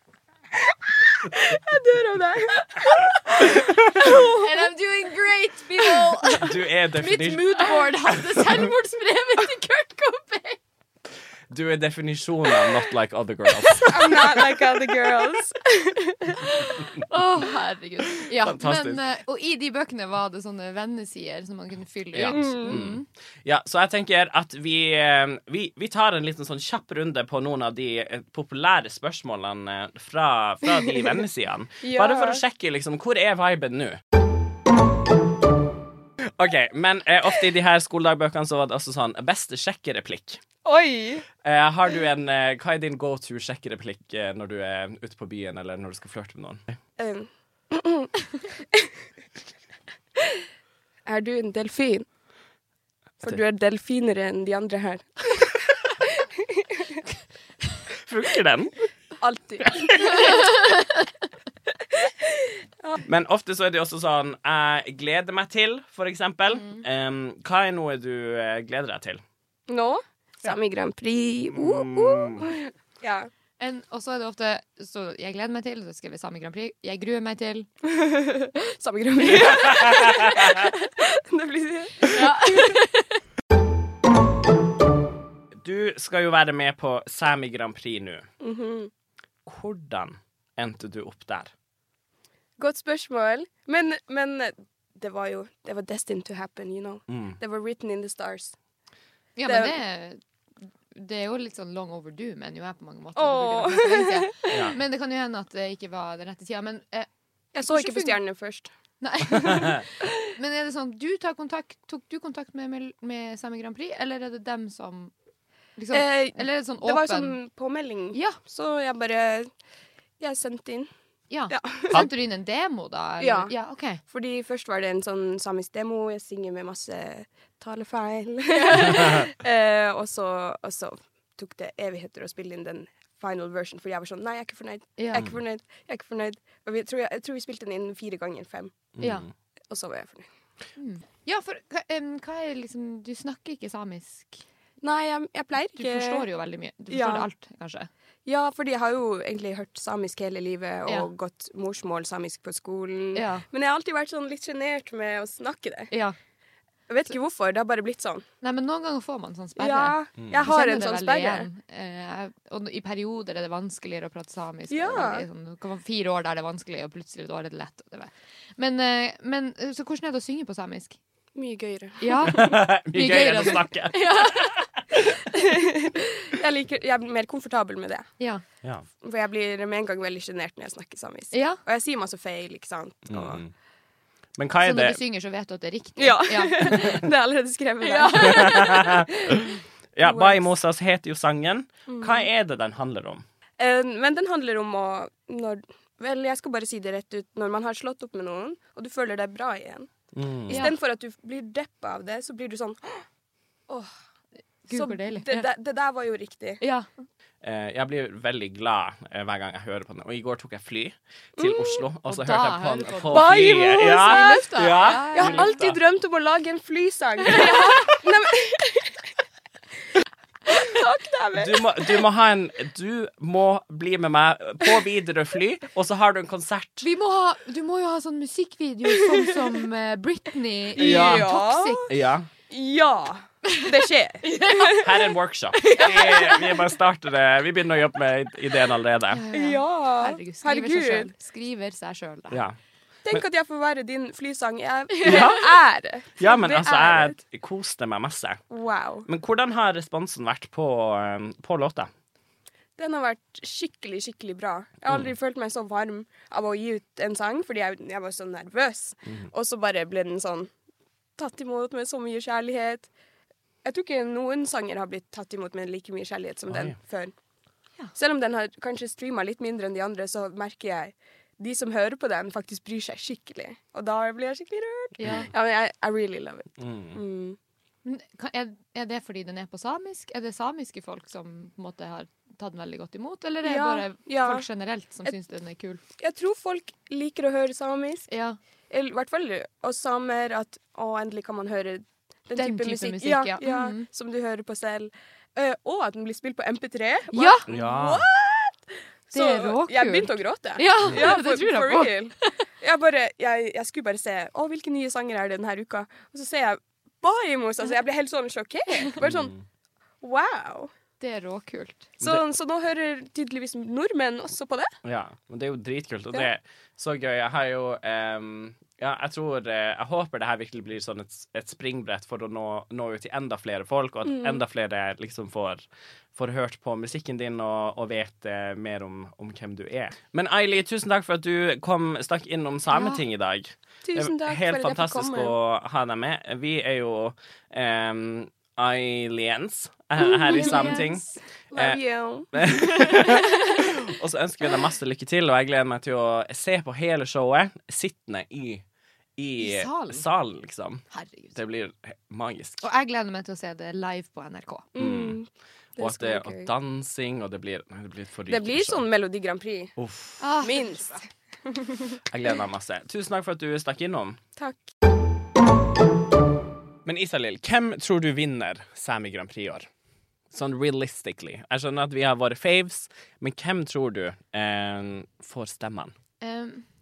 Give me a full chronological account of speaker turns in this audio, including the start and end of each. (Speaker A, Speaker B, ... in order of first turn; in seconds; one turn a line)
Speaker A: 0.7-4.7
Speaker B: 3.3-10.6
Speaker A: 5.9-6.4
Speaker C: 6.3-8.7
Speaker C: 11.5-14.2
Speaker B: 13.6-15.3
Speaker A: 13.9-16.4
Speaker B: 16.4-23.1
Speaker C: 18.3-19.0
Speaker C: 22.1-34.0
Speaker A: 22.3-22.8
Speaker A: 31.8-32.4
Speaker C: 36.4-40.4
Speaker A: 40.6-41.3
Speaker C: 41.4-46.6
Speaker A: 47.0-48.1
Speaker A: 51.0-52.0
Speaker A: 53.2-57.0
Speaker C: 58.0-58.8
Speaker A: 59.2-60.5
Speaker B: 60.0-61.1
Speaker A: 62.0-63.0
Speaker C: 63.0-69.2
Speaker B: 66.5-66.8
Speaker A: 69.7-73.3
Speaker C: 71.5-72.5
Speaker B: 73.6-77.7
Speaker A: 77.9-82.8
Speaker C: 79.2-80.7
Speaker B: 82.1-83.1
Speaker C: 85.6-88.3
Speaker A: 88.4-88.9
Speaker C: 89.4-91.5
Speaker A: 92.6-98.5
Speaker C: 97.1-97.4
Speaker B: 99.4-100.2
Speaker A: 99.5-99.8
Speaker B: 100.9-107.1
Speaker A: 103.2-104.7
Speaker C: 104.5-104.8
Speaker A: 107.5-108.7
Speaker B: 107.6-108.2
Speaker B: 109.0-115.1
Speaker A: 109.3-109.6
Speaker C: 109.5-109.8
Speaker B: 115.8-117.4
Speaker A: 115.9-119.5
Speaker B: 118.1-118.4
Speaker A: 120.2-120.9
Speaker B: 121.3-124.0
Speaker A: 121.5-122.1
Speaker A: 123.2-138.9
Speaker B: 128.5-129.2
Speaker B: 135.0-135.3
Speaker C: 138.9-139.3
Speaker B: 139.0-139.3
Speaker A: 139.7-140.3
Speaker B: 140.8-144.4
Speaker A: 144.8-146.3
Speaker B: 145.8-147.9
Speaker A: 146.9-147.3
Speaker A: 148.3-155.9
Speaker B: 153.1-153.4
Speaker B: 155.9-156.2
Speaker A: 156.9-158.2
Speaker B: 158.4-171.0
Speaker A: 159.6-161.5
Speaker C: 160.2-160.5
Speaker A: 164.7-165.3
Speaker A: 171.3-172.5
Speaker B: 172.0-174.7
Speaker C: 172.3-174.6
Speaker A: 175.3-178.1
Speaker A: 179.0-183.4
Speaker B: 181.3-181.6
Speaker C: 183.1-183.5
Speaker C: 184.4-185.0
Speaker B: 184.6-187.0
Speaker A: 186.0-189.4
Speaker B: 187.8-189.0
Speaker C: 188.2-193.2
Speaker A: 190.0-190.4
Speaker A: 191.9-192.3
Speaker A: 193.6-199.9
Speaker C: 200.1-200.6
Speaker A: 200.5-203.1
Speaker B: 200.5-200.7
Speaker B: 204.7-205.5
Speaker A: 204.7-206.6
Speaker B: 206.6-206.9
Speaker C: 207.4-215.8
Speaker A: 211.4-211.9
Speaker B: 212.1-215.6
Speaker A: 213.1-218.9
Speaker B: 217.2-218.0
Speaker A: 220.5-222.0
Speaker C: 221.4-226.9
Speaker B: 226.8-231.9
Speaker A: 228.9-229.4
Speaker A: 230.8-231.9
Speaker C: 230.8-231.3
Speaker C: 231.9-232.3
Speaker A: 232.5-235.0
Speaker B: 234.3-234.9
Speaker C: 234.8-239.2
Speaker B: 235.6-236.6
Speaker B: 239.1-242.4
Speaker A: 239.3-241.1
Speaker C: 242.3-242.6
Speaker A: 243.1-247.2
Speaker B: 245.0-245.3
Speaker C: 245.0-245.4
Speaker C: 246.2-248.4
Speaker A: 248.5-249.1
Speaker C: 249.1-251.9
Speaker A: 252.8-260.5
Speaker A: 261.2-262.9
Speaker A: 263.6-267.1
Speaker C: 266.5-266.7
Speaker A: 267.9-277.4
Speaker B: 275.0-275.3
Speaker C: 276.6-277.0
Speaker B: 277.8-285.8
Speaker A: 283.4-284.4
Speaker A: 286.0-288.1
Speaker B: 288.1-288.4
Speaker A: 288.7-309.3
Speaker B: 292.4-293.9
Speaker B: 297.1-297.4
Speaker C: 297.5-298.1
Speaker B: 299.1-302.4
Speaker C: 309.0-309.4
Speaker A: 310.0-310.7
Speaker B: 311.0-311.9
Speaker A: 312.0-314.7
Speaker C: 314.8-325.6
Speaker A: 324.1-324.4
Speaker C: 326.1-341.8
Speaker B: 332.7-333.0
Speaker A: 333.8-335.3
Speaker A: 340.3-340.9
Speaker B: 340.3-341.2
Speaker A: 341.5-343.7
Speaker C: 342.3-348.6
Speaker B: 342.5-343.0
Speaker C: 349.2-350.8
Speaker B: 349.4-350.1
Speaker B: 350.9-351.4
Speaker C: 351.3-352.6
Speaker B: 352.6-354.7
Speaker A: 354.7-356.5
Speaker C: 354.8-355.2
Speaker C: 355.8-358.8
Speaker A: 358.3-359.7
Speaker C: 359.8-360.2
Speaker B: 360.2-361.0
Speaker A: 360.4-362.0
Speaker C: 362.1-364.2
Speaker A: 364.4-364.7
Speaker C: 366.8-369.7
Speaker C: 370.3-375.9
Speaker B: 376.2-376.7